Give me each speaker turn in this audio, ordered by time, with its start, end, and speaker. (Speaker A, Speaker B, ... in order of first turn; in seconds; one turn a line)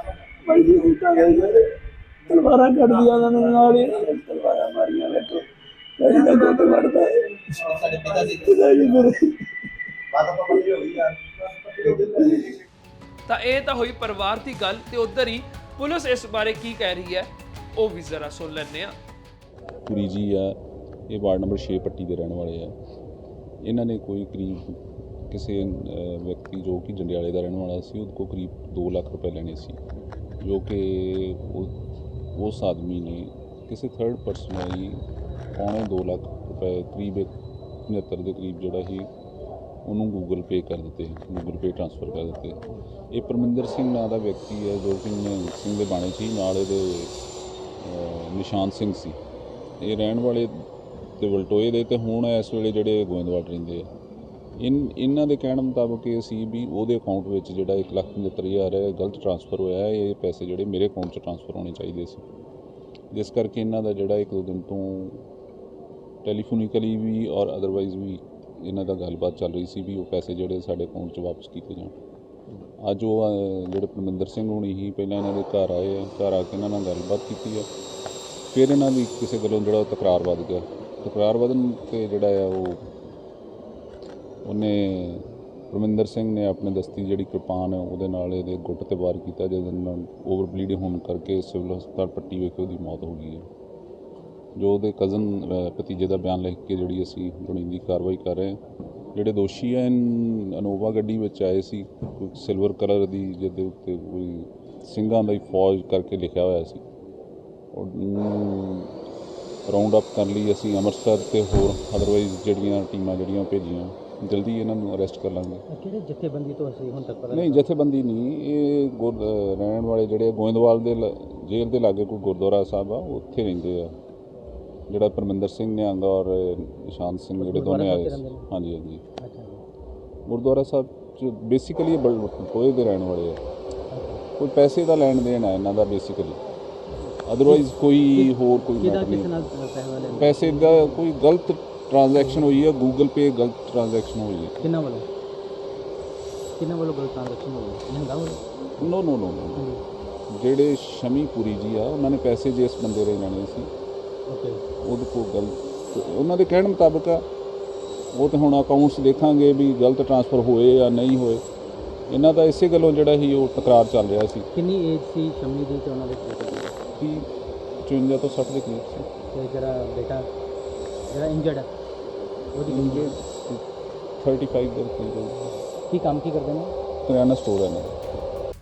Speaker A: 0.5-1.7
Speaker A: 2.3-5.5
Speaker A: 6.0-7.5
Speaker B: 7.5-9.0
Speaker A: 8.3-9.5
Speaker B: 10.1-12.6
Speaker C: 13.3-18.9
Speaker D: 19.9-20.6
Speaker D: 21.1-22.8
Speaker D: 23.6-29.8
Speaker D: 30.4-31.7
Speaker D: 32.3-37.4
Speaker D: 37.9-39.1
Speaker D: 39.8-42.6
Speaker D: 43.1-47.1
Speaker D: 47.8-49.2
Speaker D: 49.8-50.6
Speaker D: 51.2-53.9
Speaker D: 54.6-62.3
Speaker D: 63.1-65.3
Speaker D: 66.2-72.0
Speaker D: 72.8-77.7
Speaker D: 78.5-82.9
Speaker D: 84.4-93.5
Speaker D: 94.6-98.6
Speaker D: 99.1-106.8
Speaker D: 107.7-109.0
Speaker D: 109.7-115.6
Speaker E: 115.7-117.6
Speaker D: 117.3-124.0
Speaker D: 124.9-129.0
Speaker E: 127.4-128.4
Speaker E: 129.2-129.6
Speaker D: 130.3-133.4
Speaker E: 133.9-134.2
Speaker D: 134.4-136.4
Speaker E: 137.0-141.0
Speaker D: 137.3-139.3
Speaker D: 140.1-144.5
Speaker E: 142.2-142.5
Speaker E: 144.6-145.1
Speaker E: 146.6-148.4
Speaker D: 148.8-149.7
Speaker E: 149.6-149.8
Speaker D: 150.3-153.7
Speaker E: 154.3-154.6
Speaker D: 154.8-157.2
Speaker D: 158.1-161.4
Speaker D: 162.1-164.5
Speaker E: 164.6-166.8
Speaker D: 167.0-167.3
Speaker D: 167.8-169.1
Speaker E: 169.3-170.3
Speaker E: 171.1-171.7
Speaker E: 172.6-173.2
Speaker D: 172.7-173.7
Speaker D: 174.2-175.5
Speaker E: 175.9-176.7
Speaker D: 177.1-178.2